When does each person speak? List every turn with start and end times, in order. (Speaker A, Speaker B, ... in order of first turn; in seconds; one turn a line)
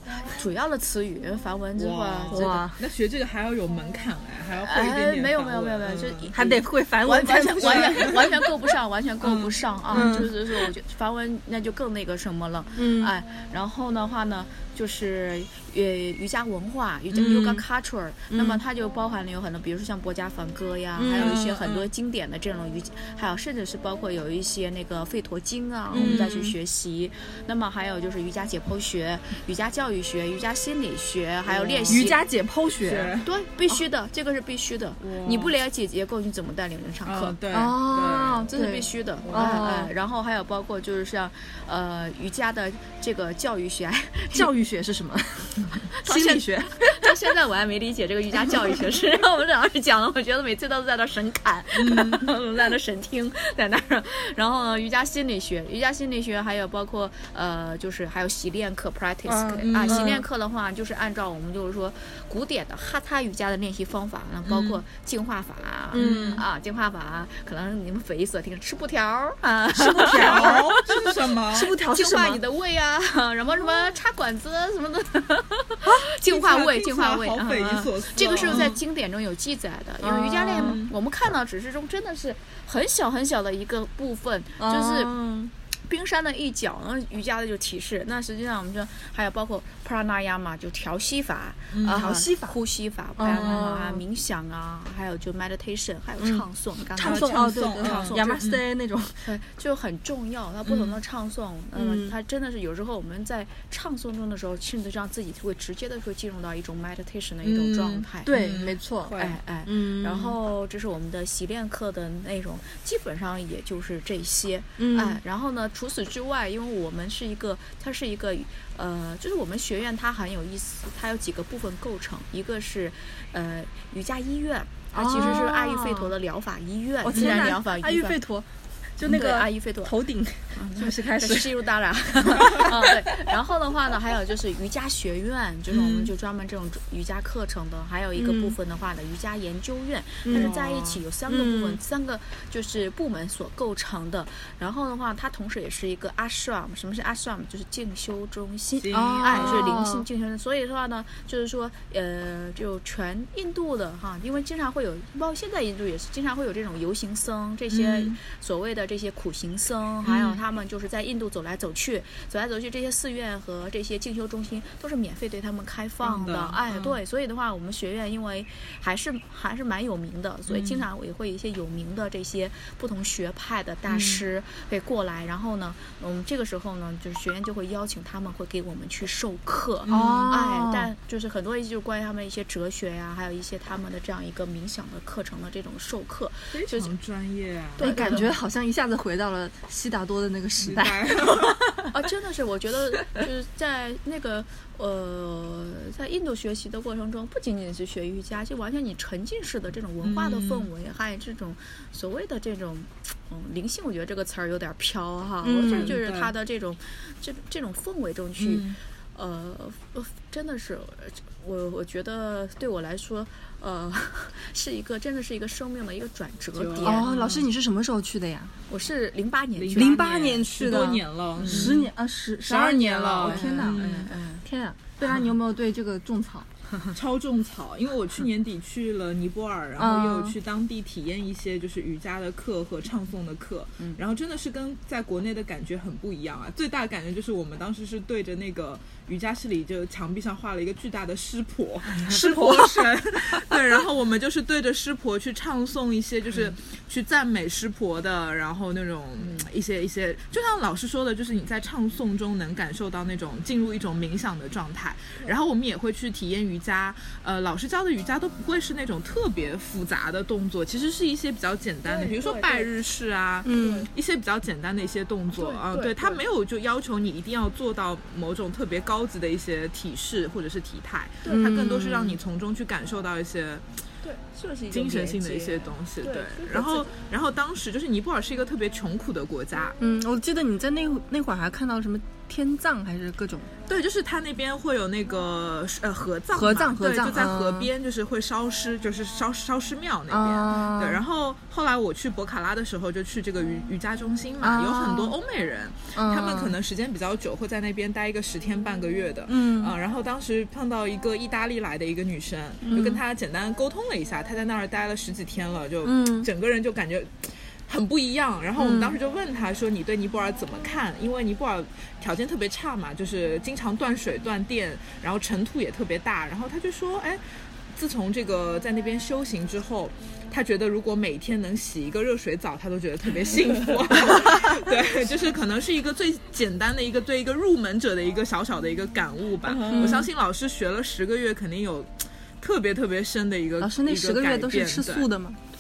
Speaker A: 0.2-2.6
Speaker B: 1.8-6.3
Speaker C: 2.3-2.8
Speaker A: 4.6-32.2
Speaker C: 6.3-8.2
Speaker B: 7.6-8.4
Speaker B: 9.2-10.2
Speaker C: 9.9-10.6
Speaker C: 12.8-13.1
Speaker C: 17.2-17.5
Speaker C: 18.3-18.6
Speaker C: 20.9-21.4
Speaker B: 21.1-21.9
Speaker C: 25.9-26.6
Speaker B: 25.9-26.4
Speaker B: 31.5-32.1
Speaker C: 31.9-33.1
Speaker B: 32.8-33.3
Speaker A: 33.2-37.4
Speaker B: 35.0-35.5
Speaker B: 37.0-38.5
Speaker C: 37.5-39.9
Speaker A: 38.5-44.5
Speaker B: 39.2-39.7
Speaker C: 44.3-47.1
Speaker A: 45.9-71.2
Speaker B: 51.8-52.3
Speaker C: 59.3-60.2
Speaker B: 59.6-60.2
Speaker B: 64.5-64.8
Speaker C: 65.9-66.4
Speaker B: 65.9-66.4
Speaker C: 69.9-70.7
Speaker B: 70.0-71.7
Speaker C: 71.5-72.4
Speaker A: 71.9-98.4
Speaker B: 76.1-78.8
Speaker C: 78.4-78.7
Speaker C: 80.0-80.8
Speaker B: 80.5-80.9
Speaker C: 84.6-85.5
Speaker B: 91.7-92.1
Speaker C: 91.9-92.5
Speaker C: 93.2-94.0
Speaker C: 97.0-99.2
Speaker B: 97.0-98.6
Speaker A: 99.2-108.4
Speaker B: 100.7-101.0
Speaker C: 101.7-102.1
Speaker B: 107.4-109.4
Speaker C: 108.2-110.4
Speaker A: 109.0-128.2
Speaker C: 114.8-115.2
Speaker C: 124.9-126.1
Speaker C: 127.0-131.6
Speaker B: 127.1-127.5
Speaker A: 129.0-129.9
Speaker A: 130.6-186.9
Speaker C: 132.3-132.9
Speaker B: 135.7-136.1
Speaker C: 138.1-138.6
Speaker C: 140.2-140.5
Speaker B: 140.3-141.0
Speaker C: 141.3-141.8
Speaker B: 148.8-149.8
Speaker C: 148.9-150.1
Speaker B: 157.7-158.2
Speaker B: 160.1-160.4
Speaker B: 166.0-167.0
Speaker B: 170.5-170.8
Speaker B: 173.9-174.2
Speaker B: 179.9-180.3
Speaker C: 179.9-180.9
Speaker B: 186.5-188.3
Speaker A: 187.8-188.3
Speaker C: 187.8-191.6
Speaker B: 190.6-191.9
Speaker A: 191.9-217.1
Speaker B: 200.0-200.7
Speaker C: 205.4-206.0
Speaker B: 205.7-206.3
Speaker B: 208.4-208.8
Speaker B: 216.6-217.5
Speaker C: 216.8-218.5
Speaker A: 218.7-220.1
Speaker B: 219.6-221.9
Speaker C: 219.8-226.5
Speaker A: 221.4-221.8
Speaker B: 222.4-224.1
Speaker A: 222.5-224.4
Speaker B: 226.9-273.7
Speaker C: 229.8-230.3
Speaker C: 242.0-243.8
Speaker A: 261.8-262.7
Speaker C: 263.4-263.9
Speaker A: 263.5-263.9
Speaker A: 265.3-266.2
Speaker C: 271.3-272.2
Speaker A: 274.0-276.9
Speaker B: 274.7-279.8
Speaker C: 279.8-283.5
Speaker B: 283.7-317.2
Speaker C: 286.3-287.7
Speaker C: 290.1-291.0
Speaker C: 294.4-295.1
Speaker C: 295.9-296.6
Speaker C: 299.3-299.7
Speaker C: 302.7-303.0
Speaker C: 305.8-306.3
Speaker C: 308.6-309.0
Speaker B: 317.7-335.1
Speaker A: 329.5-330.0
Speaker C: 329.7-330.1
Speaker C: 333.6-335.4